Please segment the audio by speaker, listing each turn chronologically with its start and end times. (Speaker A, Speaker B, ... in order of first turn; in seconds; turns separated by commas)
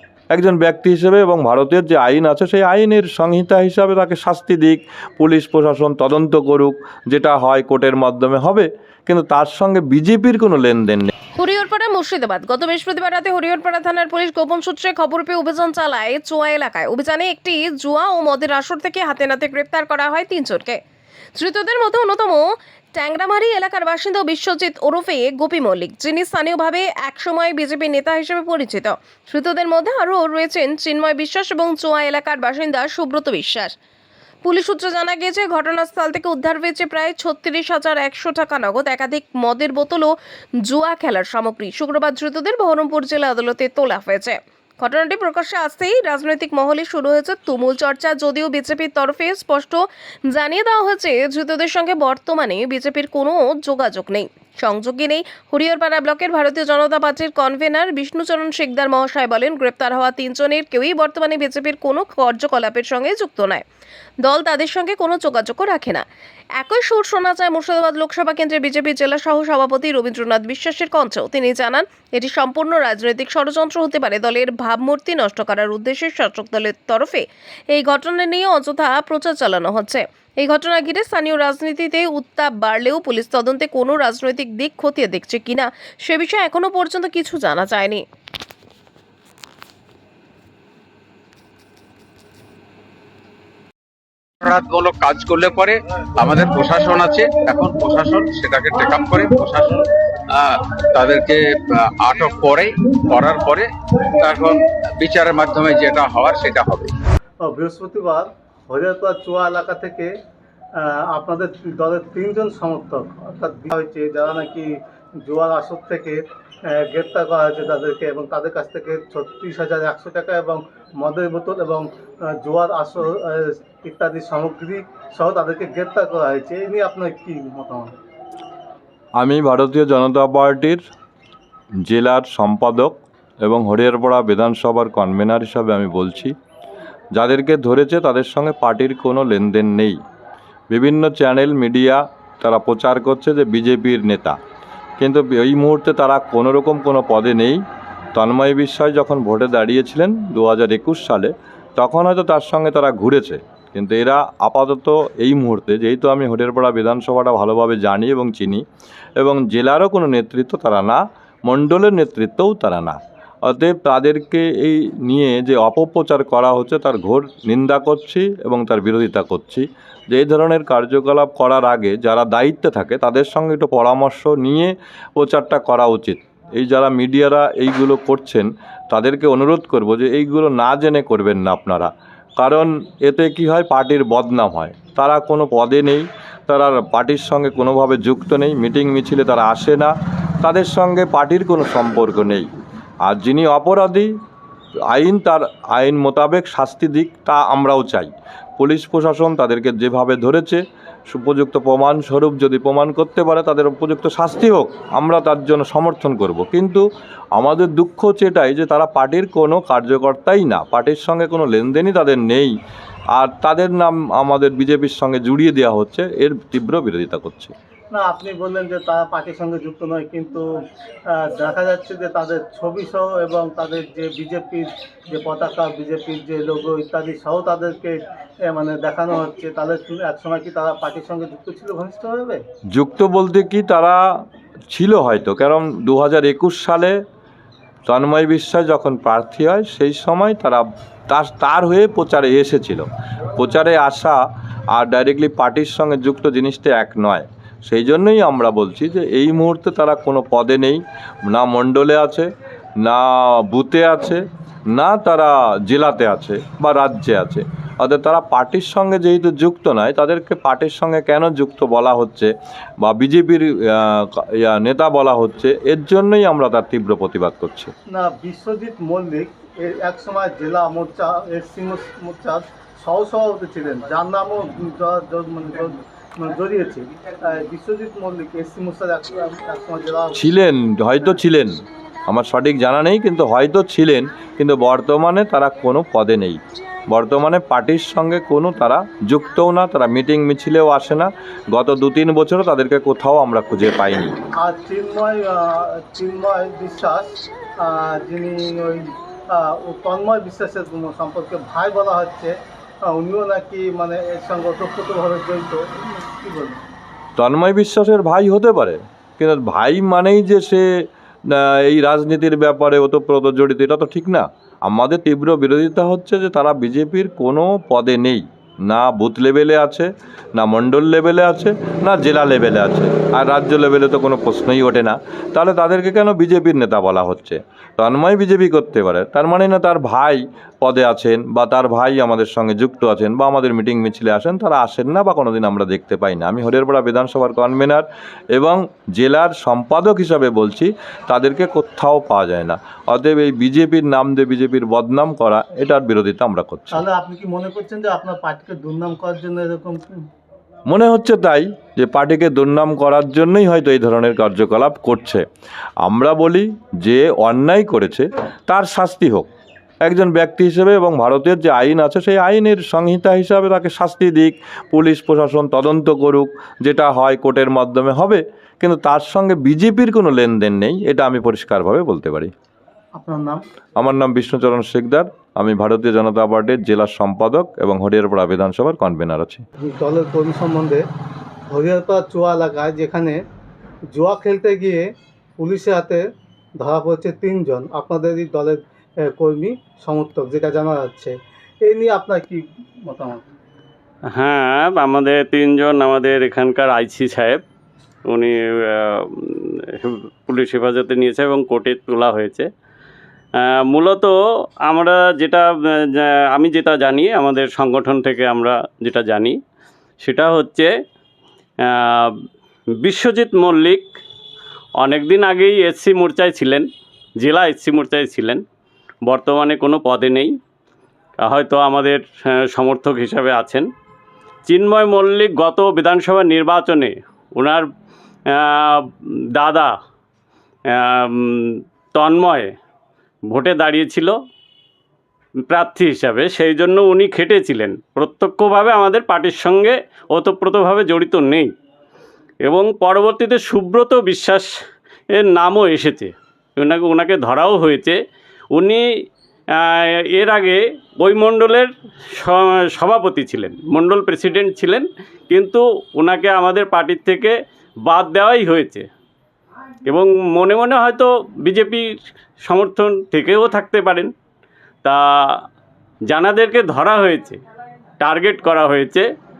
Speaker A: 0.3-11.1, Speaker B: 11.3-20.8, Speaker B: 21.4-33.7, Speaker B: 34.4-63.6, Speaker B: 64.2-66.0, Speaker B: 66.6-88.0, Speaker C: 94.4-106.9, Speaker D: 107.4-110.1, Speaker D: 110.8-127.9, Speaker A: 129.2-130.8, Speaker A: 131.8-136.3, Speaker A: 137.1-140.0, Speaker A: 140.7-144.4, Speaker A: 145.0-147.6, Speaker A: 148.1-158.6, Speaker A: 159.2-192.5, Speaker A: 193.1-194.1, Speaker A: 194.9-206.8, Speaker A: 207.3-212.5, Speaker A: 213.1-217.5, Speaker D: 217.9-220.4, Speaker D: 221.1-232.4, Speaker A: 232.7-234.0, Speaker A: 234.7-237.0, Speaker A: 237.8-244.2, Speaker A: 244.7-252.3, Speaker A: 252.8-262.3, Speaker A: 262.8-267.7, Speaker D: 267.9-280.2, Speaker A: 280.1-286.4, Speaker A: 286.9-294.1, Speaker D: 294.4-302.3, Speaker D: 302.8-306.6, Speaker A: 307.2-310.6, Speaker A: 311.3-346.8, Speaker D: 346.7-350.0, Speaker A: 350.7-355.2, Speaker A: 355.8-359.3, Speaker A: 359.8-372.3, Speaker D: 372.9-373.4, Speaker A: 373.8-379.4, Speaker D: 379.6-380.8, Speaker D: 381.5-383.2, Speaker D: 383.9-384.8, Speaker D: 385.4-386.0, Speaker D: 386.6-393.2, Speaker E: 394.1-397.4, Speaker E: 398.1-402.5, Speaker E: 403.4-409.4, Speaker E: 410.0-410.7, Speaker E: 411.6-412.1, Speaker E: 412.8-413.9, Speaker E: 414.8-416.7, Speaker E: 417.2-418.4, Speaker E: 419.0-420.4, Speaker E: 421.2-423.7, Speaker E: 424.5-427.6, Speaker E: 428.3-429.7, Speaker E: 430.7-432.5, Speaker E: 433.3-434.1, Speaker E: 435.5-441.5, Speaker E: 442.4-444.5, Speaker E: 445.1-448.0, Speaker E: 448.5-448.8, Speaker E: 449.6-458.9, Speaker E: 459.9-461.8, Speaker E: 462.4-464.1, Speaker E: 464.8-465.4, Speaker E: 466.1-467.4, Speaker E: 468.0-469.1